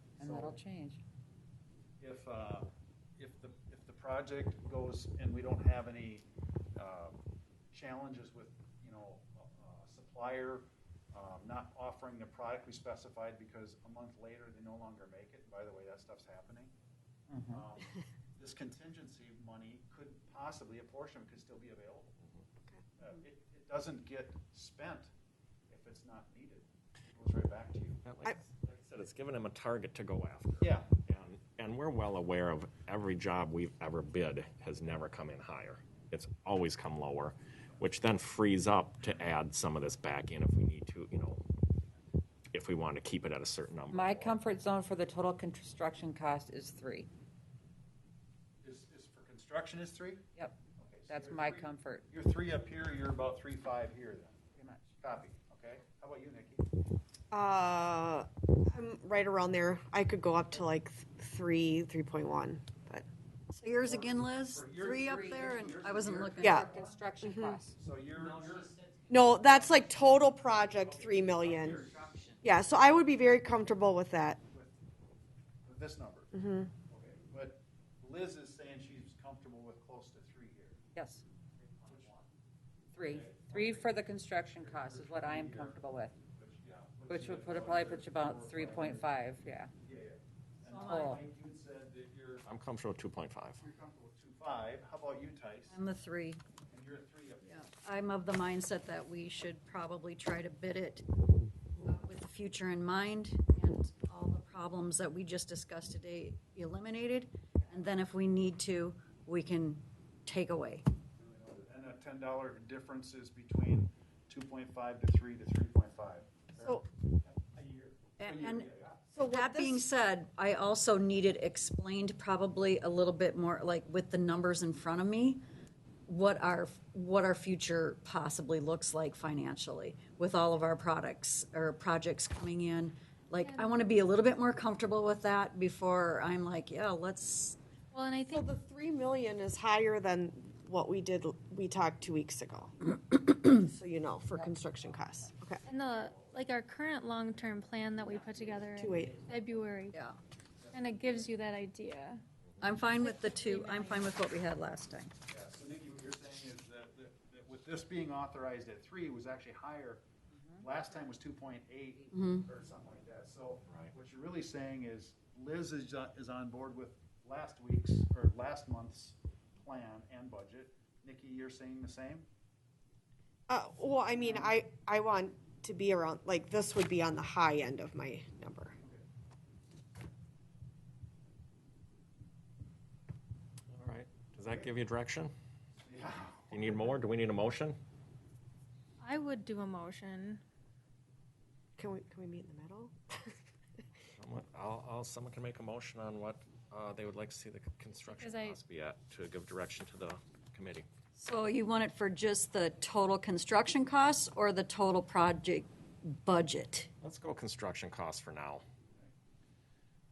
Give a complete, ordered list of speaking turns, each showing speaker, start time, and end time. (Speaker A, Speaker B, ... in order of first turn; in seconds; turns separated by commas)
Speaker A: 0.2-0.6, Speaker B: 0.2-1.0, Speaker A: 2.0-7.2, Speaker A: 7.7-16.7, Speaker B: 17.3-17.6, Speaker A: 17.5-22.2, Speaker A: 23.0-25.1, Speaker A: 25.7-28.0, Speaker C: 28.1-41.4, Speaker A: 30.6-30.9, Speaker C: 42.5-44.4, Speaker B: 43.9-47.1, Speaker A: 48.6-56.6, Speaker B: 51.1-52.0, Speaker D: 57.3-63.1, Speaker E: 63.5-66.7, Speaker A: 63.8-67.0, Speaker B: 65.0-65.5, Speaker D: 66.4-66.7, Speaker B: 66.4-67.8, Speaker D: 67.2-67.6, Speaker A: 67.7-68.7, Speaker D: 69.1-74.4, Speaker A: 70.7-72.1, Speaker A: 74.5-74.8, Speaker A: 75.6-76.4, Speaker D: 76.3-76.7, Speaker A: 76.9-80.8, Speaker B: 81.0-81.2, Speaker A: 81.8-82.2, Speaker B: 82.9-86.2, Speaker A: 83.1-84.0, Speaker A: 84.6-89.1, Speaker B: 87.1-89.7, Speaker A: 89.8-92.5, Speaker E: 90.6-91.2, Speaker B: 90.8-91.2, Speaker C: 92.5-93.6, Speaker A: 93.6-95.8, Speaker E: 95.7-96.4, Speaker A: 96.7-97.7, Speaker E: 97.5-101.0, Speaker E: 101.8-110.8, Speaker A: 111.2-119.1, Speaker E: 118.2-118.7, Speaker D: 119.2-119.8, Speaker E: 119.2-125.4, Speaker E: 126.1-137.6, Speaker F: 133.4-133.8, Speaker F: 137.9-138.5, Speaker D: 138.3-145.6, Speaker F: 145.7-150.0, Speaker A: 145.7-146.4, Speaker A: 147.4-149.6, Speaker D: 148.7-149.3, Speaker E: 149.9-150.2, Speaker A: 150.6-151.4, Speaker F: 150.7-152.2, Speaker E: 152.6-155.1, Speaker F: 152.9-154.1, Speaker A: 155.3-160.1, Speaker A: 160.6-172.3, Speaker E: 162.1-162.5, Speaker D: 173.5-178.8, Speaker A: 174.2-174.5, Speaker C: 183.7-185.3, Speaker A: 185.8-187.0, Speaker C: 186.5-187.8, Speaker F: 189.0-190.4, Speaker D: 191.8-193.3, Speaker C: 194.2-200.9, Speaker F: 198.1-198.6, Speaker E: 201.2-206.9, Speaker C: 207.0-208.6